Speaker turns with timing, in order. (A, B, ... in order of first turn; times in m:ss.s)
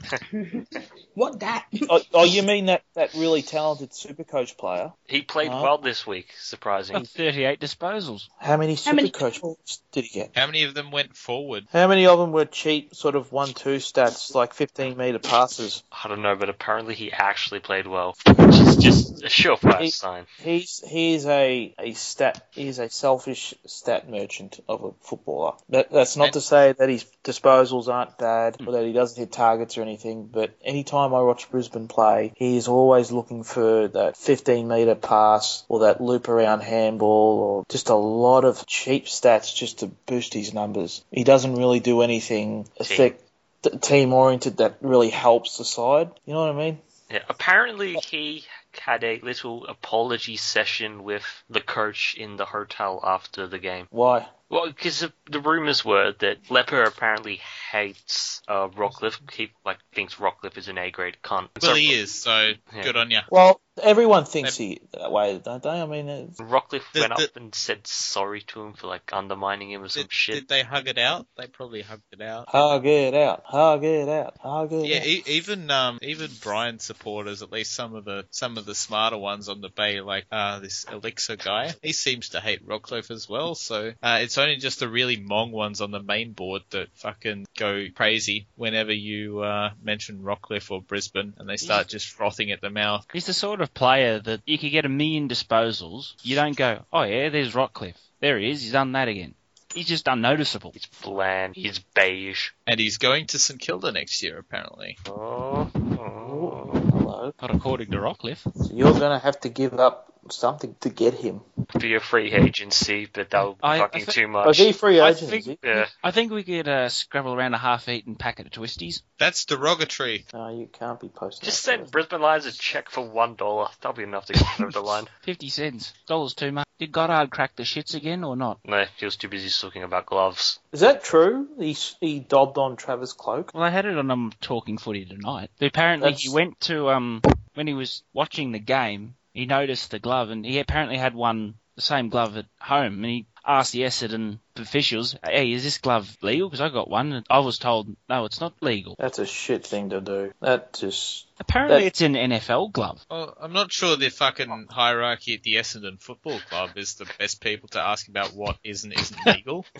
0:00.2-0:02.3 A
0:01.9-0:05.7 B
0:05.1-0:07.0 C
0:06.9-0:08.3 D
0:08.4-0:10.3 B
0:08.8-0:09.4 A
0:10.3-0:11.7 E
0:11.7-0:15.8 B
0:15.9-0:20.3 C
0:19.8-0:46.8 B
0:42.8-0:43.1 C
0:47.1-0:53.9 C
0:53.9-0:54.3 B
0:54.5-1:02.0 C
1:01.6-1:03.3 E
1:03.3-1:06.4 B
1:06.4-1:10.4 C
1:06.9-1:07.3 E
1:09.9-1:12.5 E
1:12.5-1:15.1 B
1:14.8-1:33.0 E
1:31.6-1:31.8 D
1:33.1-1:40.7 D
1:40.7-1:42.5 C
1:42.7-1:45.0 E
1:45.0-1:46.8 C
1:46.2-1:47.4 B
1:47.4-1:48.4 D
1:48.6-1:51.4 B
1:51.8-1:54.7 C
1:53.6-1:54.2 D
1:54.4-1:55.6 B
1:55.0-1:59.0 D
1:55.6-1:55.9 C
1:59.2-2:00.2 E
2:00.3-2:01.9 B
2:01.4-2:05.1 C
2:04.7-2:08.6 D
2:08.6-2:10.6 C
2:10.7-2:13.5 B
2:13.5-2:29.0 D
2:16.0-2:16.4 B
2:29.0-2:31.9 B
2:31.4-2:33.0 D
2:33.1-2:39.6 E